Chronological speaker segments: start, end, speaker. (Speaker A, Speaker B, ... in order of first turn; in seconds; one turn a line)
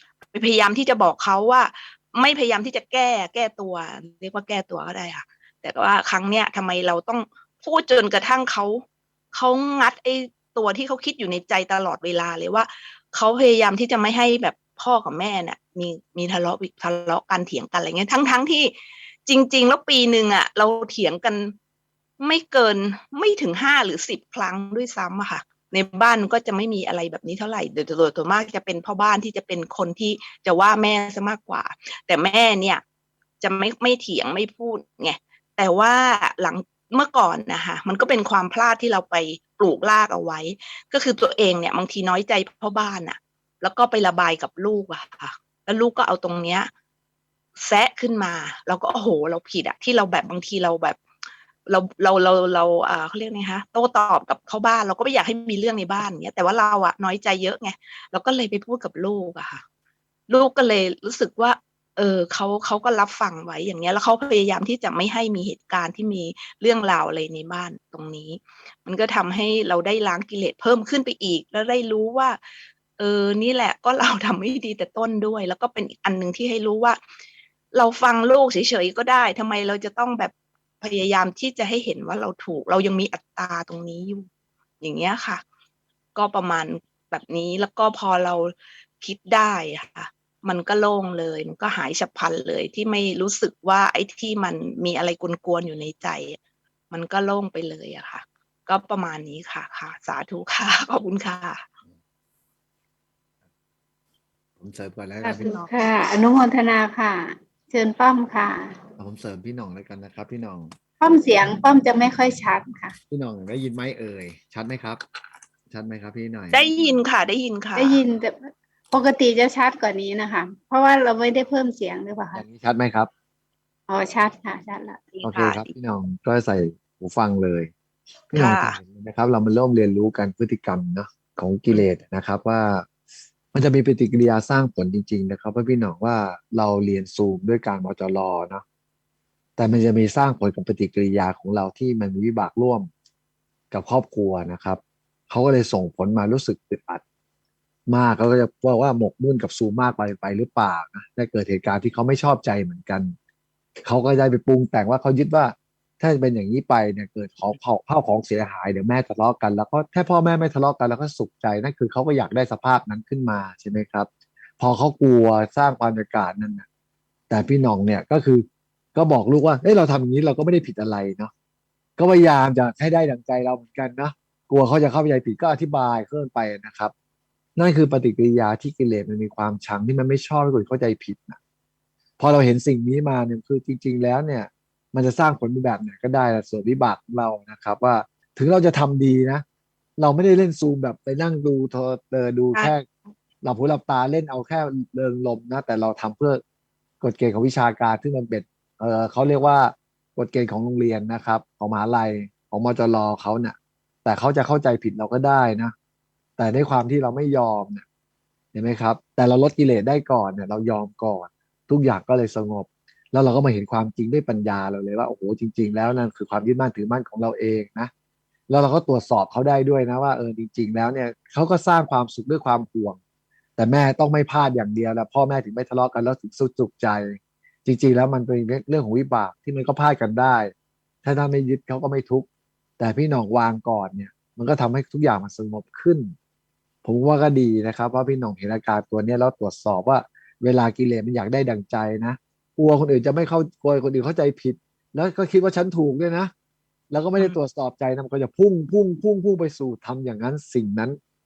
Speaker A: 0.3-21.5
Speaker A: 22.2-32.8
Speaker A: 33.4-46.7
Speaker A: 47.6-51.0
Speaker A: 51.7-59.6
Speaker A: 60.3-72.4
Speaker A: 73.0-77.0
Speaker A: 77.7-84.3
Speaker A: 84.8-85.4
Speaker A: 86.1-96.4
Speaker A: 96.9-101.6
Speaker B: 104.6-105.6
Speaker C: 105.2-108.8
Speaker B: 109.0-110.7
Speaker C: 111.0-112.9
Speaker B: 113.1-115.0
Speaker B: 115.7-116.7
Speaker A: 116.5-118.0
Speaker C: 117.8-122.4
Speaker B: 122.3-123.1
Speaker C: 123.9-125.0
Speaker A: 125.1-125.7
Speaker B: 125.2-127.7
Speaker B: 128.3-132.9
Speaker A: 128.3-128.8
Speaker B: 133.5-138.6
Speaker B: 139.6-142.9
Speaker B: 143.7-147.0
Speaker B: 147.9-153.1
Speaker B: 153.8-164.1
Speaker B: 164.6-166.7
Speaker B: 167.3-171.3
Speaker B: 172.0-176.9
Speaker B: 177.6-181.4
Speaker B: 182.2-189.4
Speaker B: 190.0-192.8
Speaker B: 193.4-196.4
Speaker B: 197.0-205.7
Speaker B: 206.4-207.8
Speaker B: 208.5-217.9
Speaker B: 218.5-223.0
Speaker B: 223.6-230.5
Speaker B: 231.0-232.3
Speaker B: 232.8-236.1
Speaker B: 236.8-246.3
Speaker B: 246.9-251.0